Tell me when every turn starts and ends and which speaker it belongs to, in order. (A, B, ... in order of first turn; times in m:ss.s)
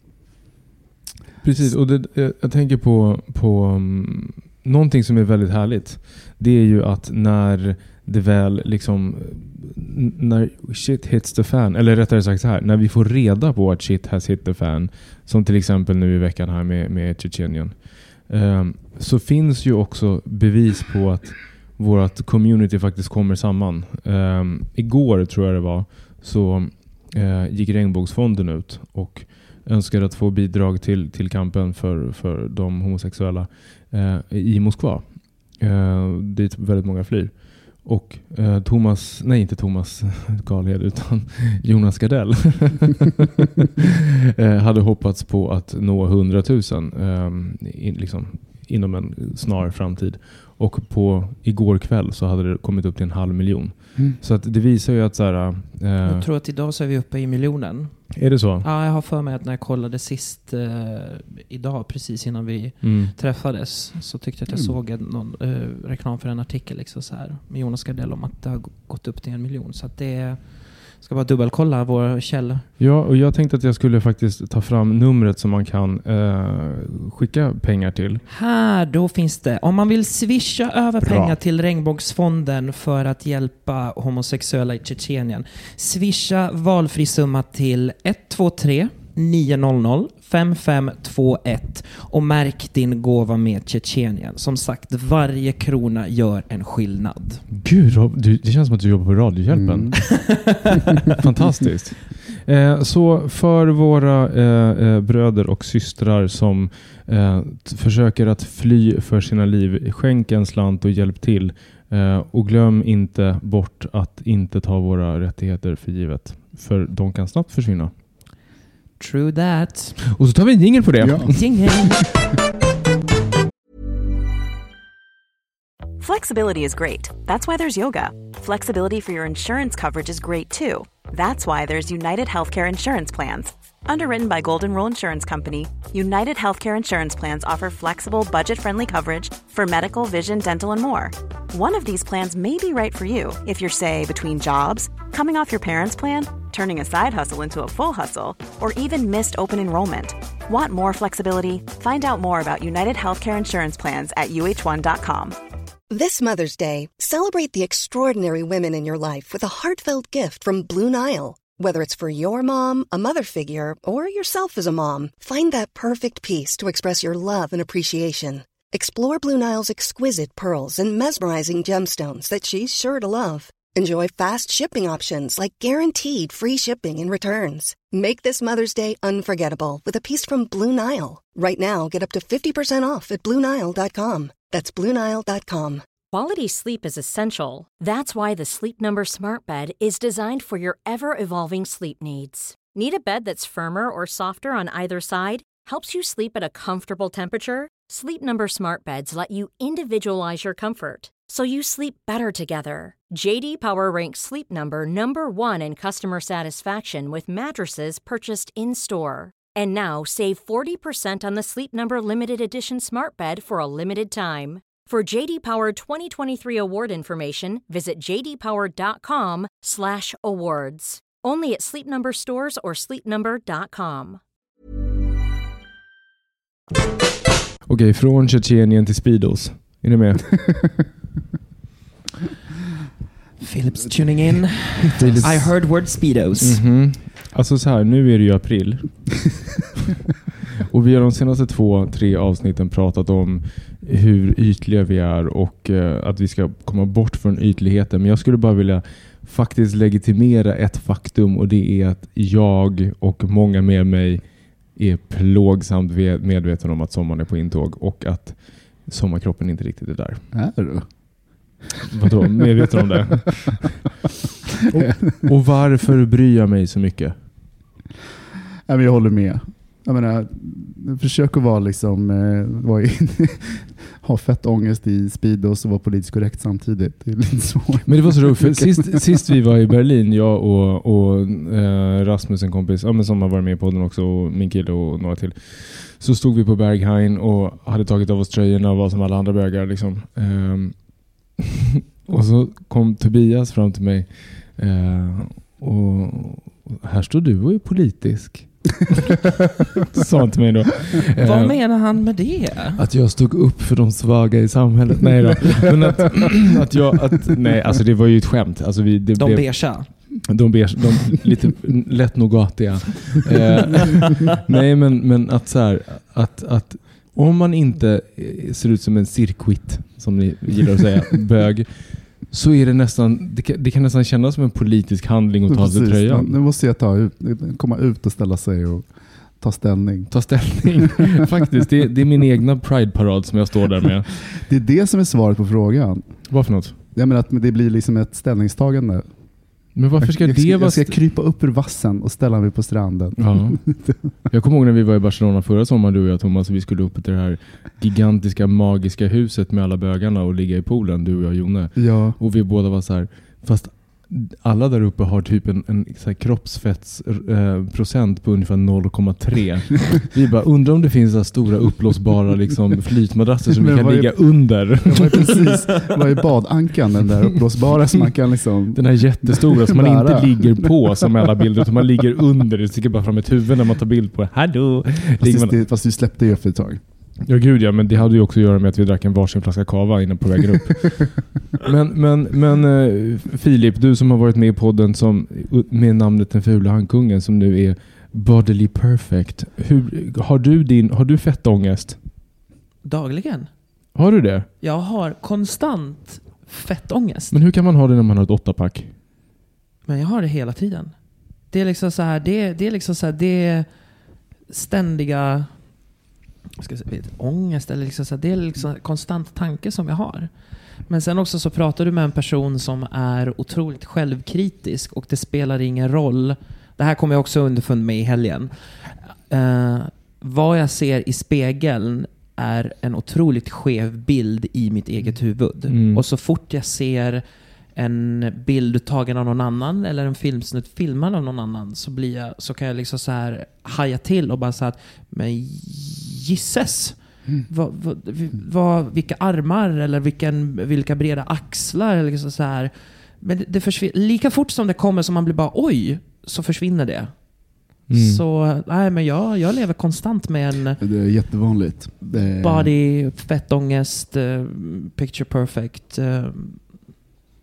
0:01.4-0:56.3 A
0:56.0-1:12.6 B
0:58.1-0:58.6 A
1:02.8-1:03.1 A
1:12.8-1:18.2 A
1:18.3-1:37.4 B
1:21.0-1:21.4 A
1:37.5-1:40.3 A
1:39.5-1:40.5 C
1:40.1-1:40.7 B
1:41.2-1:57.9 A
1:59.0-2:00.0 B
2:00.1-2:01.5 A
2:01.0-2:02.0 C
2:01.3-2:02.0 B
2:06.0-2:35.4 D
2:35.9-3:05.8 E
3:06.1-3:44.2 F
3:47.7-3:50.5 A
3:53.4-3:56.6 B
3:55.0-3:55.6 A
3:55.0-3:55.3 C
3:56.4-3:59.5 A
4:00.6-4:14.2 A
4:14.7-4:20.2 A
4:20.3-4:20.9 C
4:21.9-4:23.9 A
4:24.7-4:27.1 A
4:24.8-4:25.3 C
4:28.7-4:39.0 C
4:37.8-4:51.5 A
4:52.0-5:01.6 A
5:01.2-5:02.8 B
5:02.8-5:26.4 A
5:09.2-5:09.9 B
5:25.5-5:31.1 C
5:30.1-5:34.2 A
5:34.3-5:36.2 C
5:36.3-5:36.8 A
5:36.9-5:39.1 C
5:39.7-5:41.0 A
5:40.0-5:44.1 C
5:43.2-5:43.6 A
5:44.3-6:05.4 A
5:51.8-5:52.2 C
6:03.5-6:11.3 C
6:08.7-6:15.6 A
6:15.2-6:16.8 C
6:17.2-6:32.0 A
6:32.8-6:33.5 B
6:33.9-6:34.5 A
6:34.6-6:37.4 B
6:37.3-6:38.9 A
6:39.9-6:40.9 B
6:41.5-6:43.7 B
6:44.5-6:45.6 B
6:46.6-6:50.3 B
6:50.8-7:07.2 B
7:05.7-7:06.0 A
7:07.7-7:30.8 B
7:27.9-7:28.2 A
7:30.8-7:32.7 C
7:32.0-7:36.7 B